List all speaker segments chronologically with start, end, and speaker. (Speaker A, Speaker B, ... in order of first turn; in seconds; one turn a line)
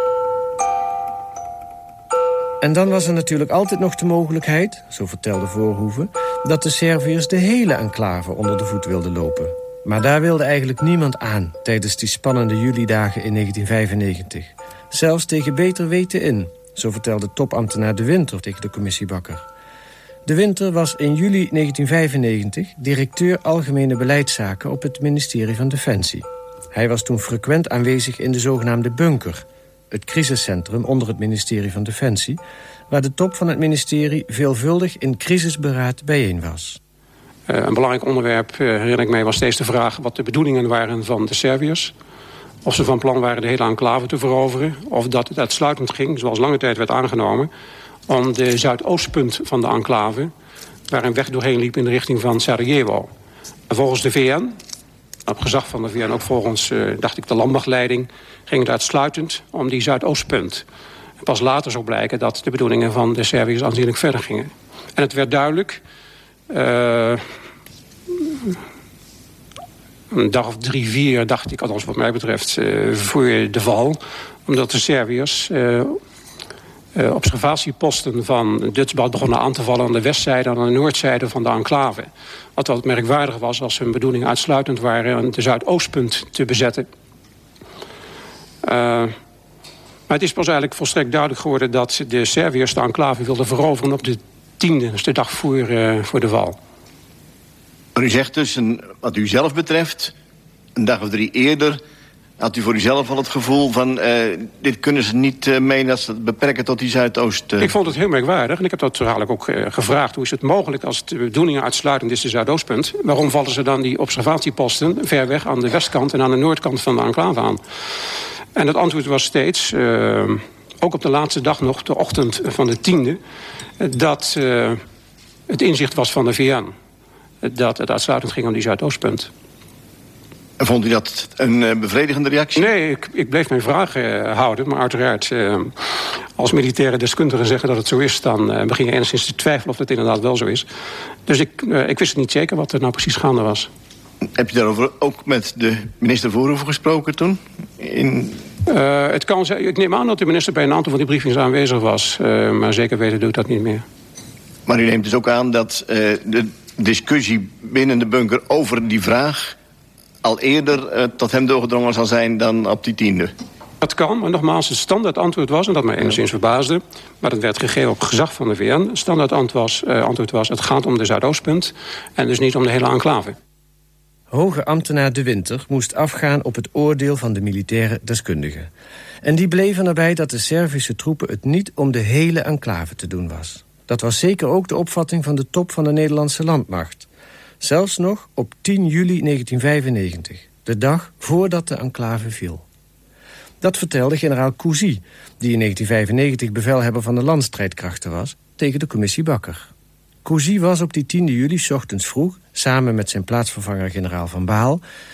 Speaker A: 2.6-19.5
Speaker A: 20.3-36.8
Speaker B: 37.5-41.9
Speaker B: 42.6-47.5
Speaker B: 48.1-50.3
Speaker B: 50.9-53.1
Speaker B: 53.7-54.6
Speaker B: 55.3-60.6
Speaker B: 61.2-65.8
Speaker B: 66.5-67.2
Speaker B: 68.2-68.5
Speaker B: 70.1-76.0
Speaker B: 77.0-86.9
Speaker B: 88.6-89.2
Speaker B: 90.1-96.6
Speaker C: 98.0-100.1
Speaker C: 100.8-101.8
Speaker C: 102.4-107.7
Speaker B: 107.6-117.6
Speaker B: 118.5-123.2
Speaker B: 123.8-124.8
Speaker B: 125.5-126.7
Speaker B: 127.4-129.3
Speaker C: 130.6-132.7
Speaker B: 132.6-140.7
Speaker B: 141.3-143.7
Speaker C: 144.4-148.4
Speaker B: 148.7-153.8
Speaker C: 154.7-159.6
Speaker C: 160.2-163.3
Speaker B: 163.8-173.4
Speaker A: 174.3-178.7
Speaker A: 179.2-187.1
Speaker A: 187.6-192.6
Speaker A: 193.6-199.7
Speaker A: 200.2-204.8